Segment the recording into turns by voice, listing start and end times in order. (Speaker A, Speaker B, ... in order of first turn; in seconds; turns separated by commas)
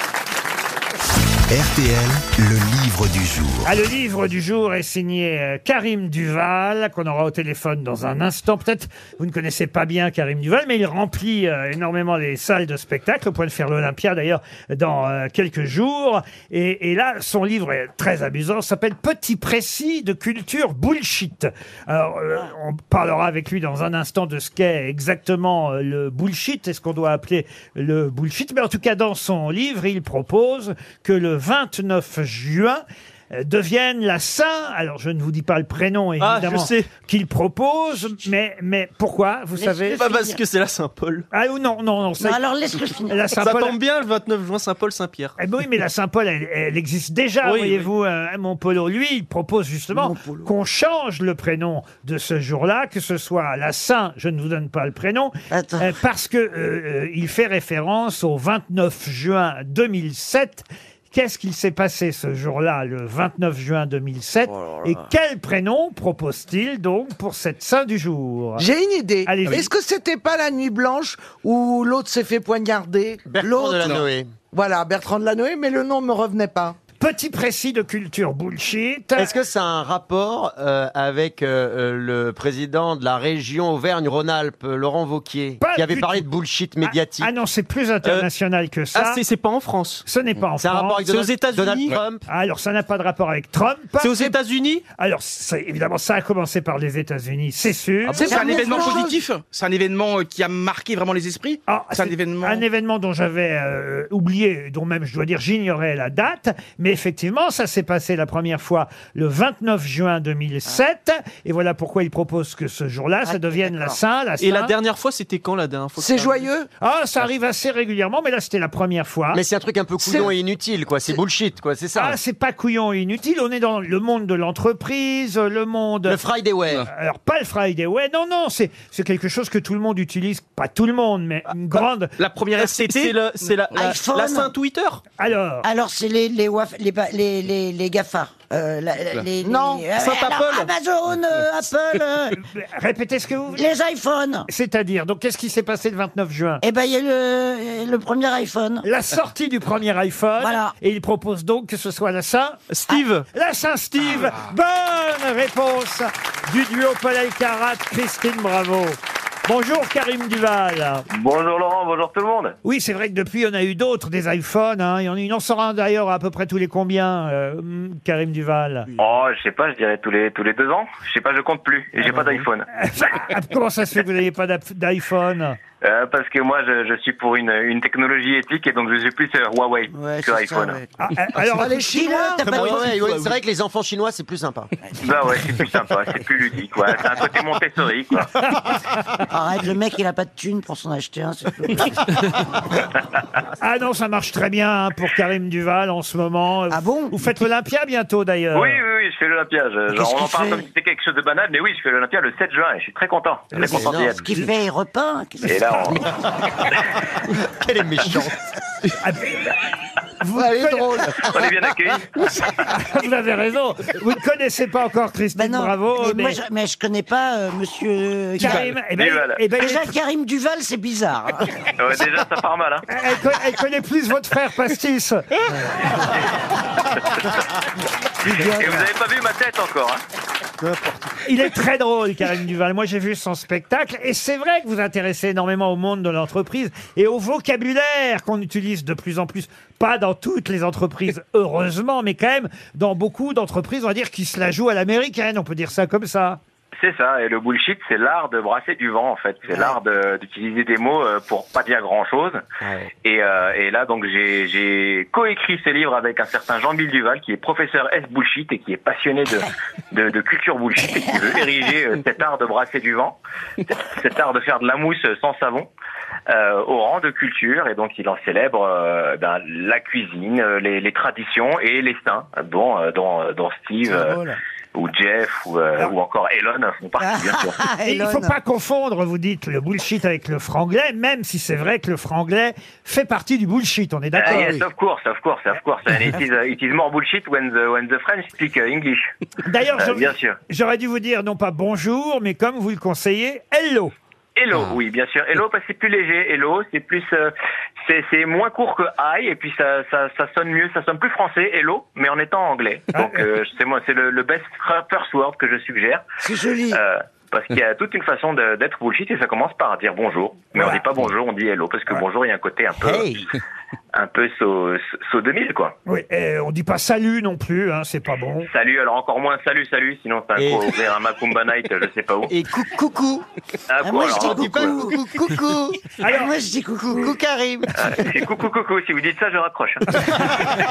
Speaker A: 1.5-3.7, Speaker B: 3.6-40.0, Speaker C: 36.2-36.9, Speaker D: 39.5-40.4, Speaker C: 39.9-41.2, Speaker B: 41.3-42.4, Speaker D: 42.2-43.2, Speaker B: 43.1-43.8, Speaker C: 43.4-45.4, Speaker B: 45.4-68.6, Speaker C: 47.4-47.9, Speaker D: 49.9-50.5, Speaker D: 55.5-56.0, Speaker D: 64.5-65.0, Speaker E: 68.6-74.0, Speaker B: 69.2-69.7, Speaker F: 73.2-74.3, Speaker E: 74.5-76.8, Speaker B: 77.0-79.3, Speaker F: 79.2-87.3, Speaker B: 85.6-86.3, Speaker B: 86.8-89.2, Speaker C: 88.9-90.0, Speaker B: 90.0-91.0, Speaker F: 90.6-92.2, Speaker C: 91.1-92.0, Speaker B: 92.3-94.3, Speaker C: 94.0-94.8, Speaker B: 95.0-98.9, Speaker E: 98.1-99.2, Speaker G: 98.2-102.6, Speaker D: 98.3-99.1, Speaker B: 101.7-114.7, Speaker D: 113.2-114.0, Speaker C: 114.4-116.5, Speaker E: 116.0-116.7, Speaker B: 116.8-119.4, Speaker F: 119.3-122.2, Speaker E: 120.0-120.3, Speaker B: 121.9-126.2, Speaker F: 126.1-126.9, Speaker B: 126.9-132.2, Speaker G: 132.2-133.1, Speaker C: 132.5-135.0, Speaker D: 133.7-134.5, Speaker B: 135.2-135.7, Speaker D: 135.6-142.4, Speaker E: 139.4-139.9, Speaker C: 140.0-140.7, Speaker B: 142.4-143.6, Speaker D: 143.5-144.5, Speaker B: 144.5-146.6, Speaker D: 146.6-148.8, Speaker B: 148.8-152.6, Speaker D: 150.4-150.7, Speaker C: 152.7-153.2, Speaker B: 153.3-161.1, Speaker C: 154.0-154.3, Speaker H: 161.1-162.5, Speaker B: 162.6-168.9, Speaker H: 169.0-172.7, Speaker B: 172.7-175.6, Speaker H: 175.8-180.8, Speaker D: 179.9-180.9, Speaker B: 181.0-181.8, Speaker D: 181.5-183.1, Speaker E: 181.5-182.6, Speaker F: 182.4-184.7, Speaker C: 182.6-183.2, Speaker H: 185.0-188.3, Speaker B: 188.4-188.8, Speaker D: 189.3-192.2, Speaker B: 193.6-198.8, Speaker D: 196.7-197.2, Speaker H: 198.5-204.3, Speaker D: 199.9-200.7, Speaker F: 203.5-204.4, Speaker D: 203.6-206.0, Speaker H: 205.4-206.0, Speaker F: 207.4-208.4, Speaker B: 209.0-209.4, Speaker B: 210.2-211.1, Speaker E: 210.3-211.5, Speaker H: 211.2-212.2, Speaker B: 212.6-216.4, Speaker D: 215.3-218.7, Speaker B: 218.4-219.9, Speaker H: 218.9-219.4, Speaker D: 219.6-221.5, Speaker H: 221.8-222.8, Speaker B: 222.9-225.2, Speaker H: 225.9-226.2, Speaker D: 228.2-228.8, Speaker H: 228.2-230.0, Speaker B: 231.2-246.4, Speaker H: 246.8-252.4, Speaker F: 252.6-252.9, Speaker H: 253.0-263.2, Speaker H: 263.9-265.7, Speaker H: 266.3-274.2, Speaker E: 274.0-274.3, Speaker H: 274.7-277.6, Speaker D: 277.0-278.4, Speaker B: 277.8-284.6, Speaker H: 284.1-289.0, Speaker D: 284.3-284.6, Speaker B: 289.4-293.9, Speaker H: 289.7-290.4, Speaker H: 294.4-306.0, Speaker B: 302.9-303.3, Speaker D: 306.2-306.8, Speaker H: 306.7-313.1, Speaker F: 312.8-313.3, Speaker H: 313.9-315.7, Speaker B: 315.9-318.5, Speaker H: 318.4-322.3, Speaker F: 320.4-320.8, Speaker F: 322.3-323.2, Speaker H: 323.7-324.7, Speaker D: 323.8-325.0, Speaker F: 324.1-325.8, Speaker B: 326.0-326.3, Speaker D: 326.0-327.1, Speaker F: 326.9-327.7, Speaker H: 327.8-330.1, Speaker B: 329.9-330.4